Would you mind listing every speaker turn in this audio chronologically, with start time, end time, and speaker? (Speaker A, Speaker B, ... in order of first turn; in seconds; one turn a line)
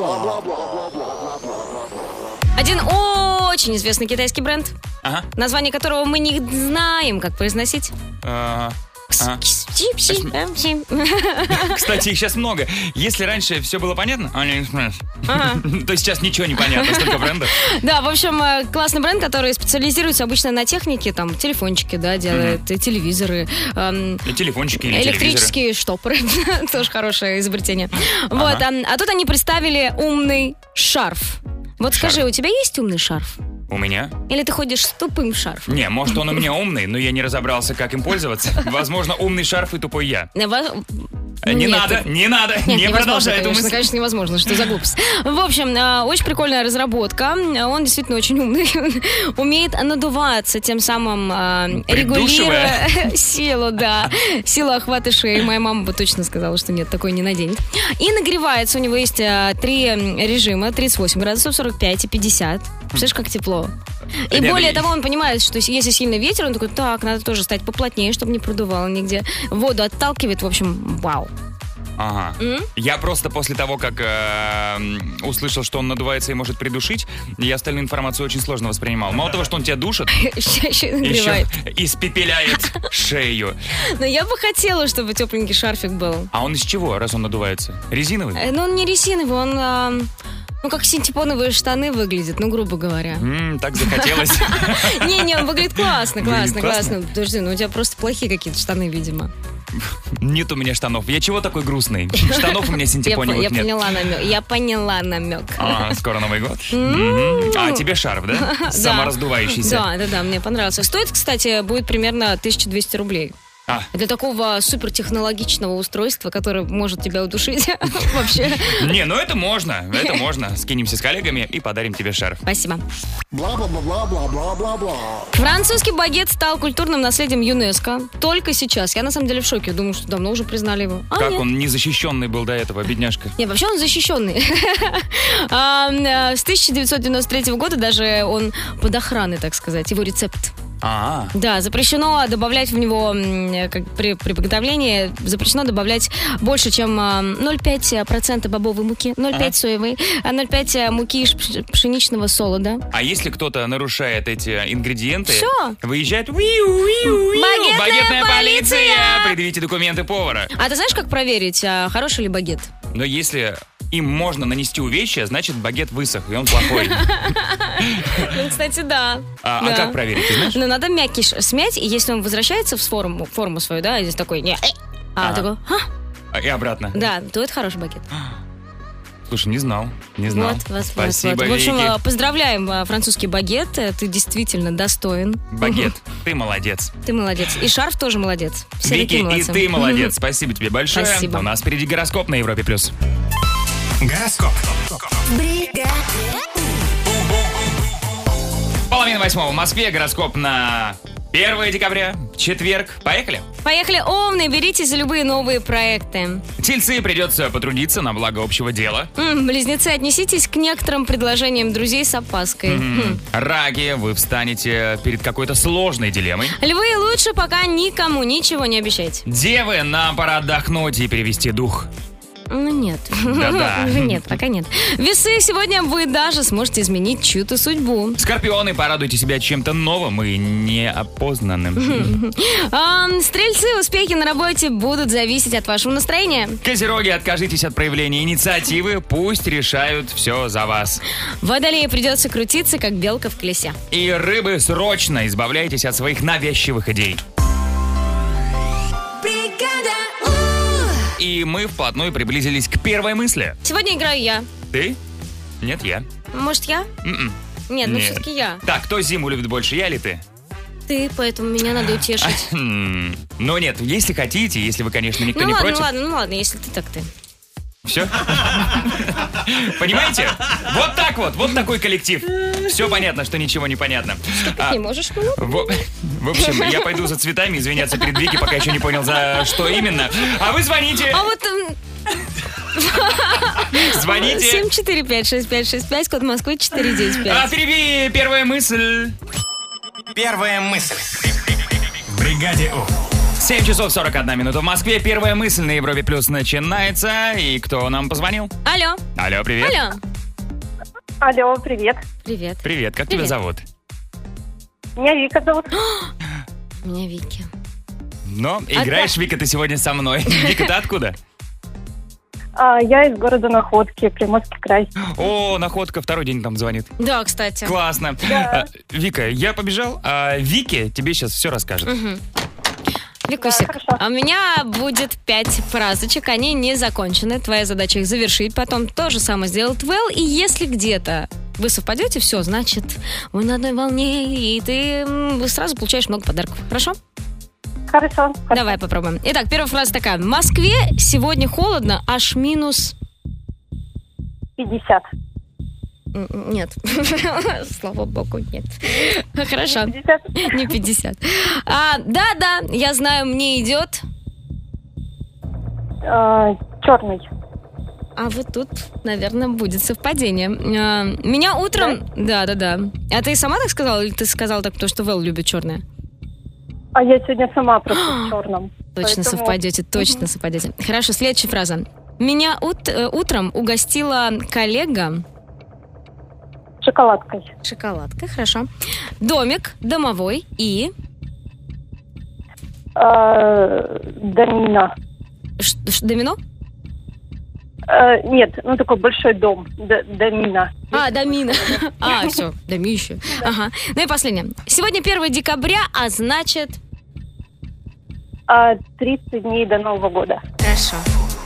Speaker A: 2.6-4.7
Speaker A: 5.4-7.9
Speaker B: 8.2-9.4
Speaker A: 9.1-11.9
Speaker B: 10.1-10.3
Speaker B: 11.5-17.6
Speaker A: 15.3-15.6
Speaker A: 16.6-24.2
Speaker B: 22.3-22.6
Speaker B: 24.3-25.5
Speaker A: 24.8-33.4
Speaker B: 28.3-28.6
Speaker B: 31.9-32.2
Speaker B: 33.7-34.1
Speaker A: 34.3-36.4
Speaker B: 35.7-40.3
Speaker A: 40.4-42.1
Speaker B: 41.5-43.9
Speaker A: 42.7-63.7
Speaker B: 51.7-53.1
Speaker A: 64.3-71.3
Speaker B: 64.3-64.9
Speaker B: 72.0-80.1
Speaker A: 72.4-72.7
Speaker A: 80.2-81.5
Speaker B: 81.0-83.6
Speaker A: 83.9-86.3
Speaker B: 86.3-88.4
Speaker A: 88.4-90.1
Speaker A: 90.6-93.2
Speaker B: 93.2-96.9
Speaker A: 93.8-99.3
Speaker B: 99.8-104.0
Speaker A: 102.2-106.0
Speaker B: 105.6-109.9
Speaker A: 106.7-107.8
Speaker A: 108.3-113.3
Speaker A: 113.9-118.9
Speaker B: 118.7-122.4
Speaker A: 122.5-122.8
Speaker A: 125.3-131.4
Speaker B: 131.2-133.3
Speaker A: 133.4-140.5
Speaker B: 140.8-141.3
Speaker A: 141.3-152.8
Speaker B: 152.9-160.5
Speaker A: 155.3-155.8
Speaker A: 157.1-159.3
Speaker A: 160.6-162.7
Speaker B: 162.9-167.1
Speaker A: 166.6-175.9
Speaker B: 167.8-168.3
Speaker B: 169.4-170.6
Speaker B: 175.2-175.5
Speaker B: 176.3-177.0
Speaker A: 176.9-178.1
Speaker B: 179.3-182.0
Speaker A: 180.3-185.9
Speaker B: 185.5-186.9
Speaker A: 187.1-190.1
Speaker B: 188.8-192.9
Speaker A: 190.9-191.5
Speaker C: 194.0-195.1
Speaker B: 198.9-203.5
Speaker A: 203.6-206.4
Speaker B: 206.6-209.1
Speaker A: 209.2-213.2
Speaker B: 212.7-216.6
Speaker A: 216.6-219.2
Speaker B: 219.3-221.9
Speaker A: 222.5-228.2
Speaker B: 223.3-224.4
Speaker B: 228.2-232.1
Speaker A: 231.8-236.6
Speaker B: 236.6-241.0
Speaker A: 241.4-243.8
Speaker B: 243.9-247.2
Speaker A: 249.2-250.8
Speaker B: 251.2-253.6
Speaker A: 253.6-254.5
Speaker B: 254.7-255.0
Speaker B: 255.6-256.1
Speaker A: 256.3-256.9
Speaker B: 257.0-260.2
Speaker A: 257.7-258.6
Speaker A: 260.9-262.4
Speaker B: 262.2-265.9
Speaker A: 265.3-267.1
Speaker B: 267.9-274.8
Speaker A: 274.4-275.8
Speaker B: 275.4-281.2
Speaker A: 276.4-277.0
Speaker A: 279.4-279.8
Speaker A: 281.1-281.8
Speaker A: 282.8-287.5
Speaker B: 283.7-284.7
Speaker B: 287.1-289.1
Speaker C: 290.1-291.4
Speaker C: 292.1-292.9
Speaker B: 293.4-298.5
Speaker A: 298.6-299.0
Speaker B: 299.2-299.9
Speaker A: 299.6-300.0
Speaker D: 301.2-302.0
Speaker A: 302.2-303.3
Speaker B: 302.6-303.6
Speaker D: 305.0-305.7
Speaker A: 305.7-306.1
Speaker A: 306.8-307.5
Speaker B: 308.3-311.2
Speaker A: 308.8-309.1
Speaker A: 310.3-310.6
Speaker D: 312.6-314.9
Speaker B: 315.1-316.9
Speaker A: 317.0-317.7
Speaker B: 317.6-321.9
Speaker D: 318.3-318.7
Speaker A: 321.9-322.2
Speaker A: 323.3-337.0
Speaker D: 323.4-324.0
Speaker D: 337.9-338.7
Speaker A: 338.5-342.9
Speaker D: 344.6-345.1
Speaker A: 346.1-354.0
Speaker D: 349.7-350.6
Speaker D: 356.1-357.3
Speaker A: 358.2-365.8
Speaker D: 366.9-370.1
Speaker A: 367.9-368.4
Speaker A: 368.9-375.2
Speaker D: 376.8-377.5
Speaker A: 377.6-378.7
Speaker A: 379.2-380.9
Speaker D: 383.0-384.9
Speaker A: 385.6-386.4
Speaker D: 387.9-392.3
Speaker A: 390.9-396.8
Speaker D: 398.5-400.4
Speaker A: 400.6-401.1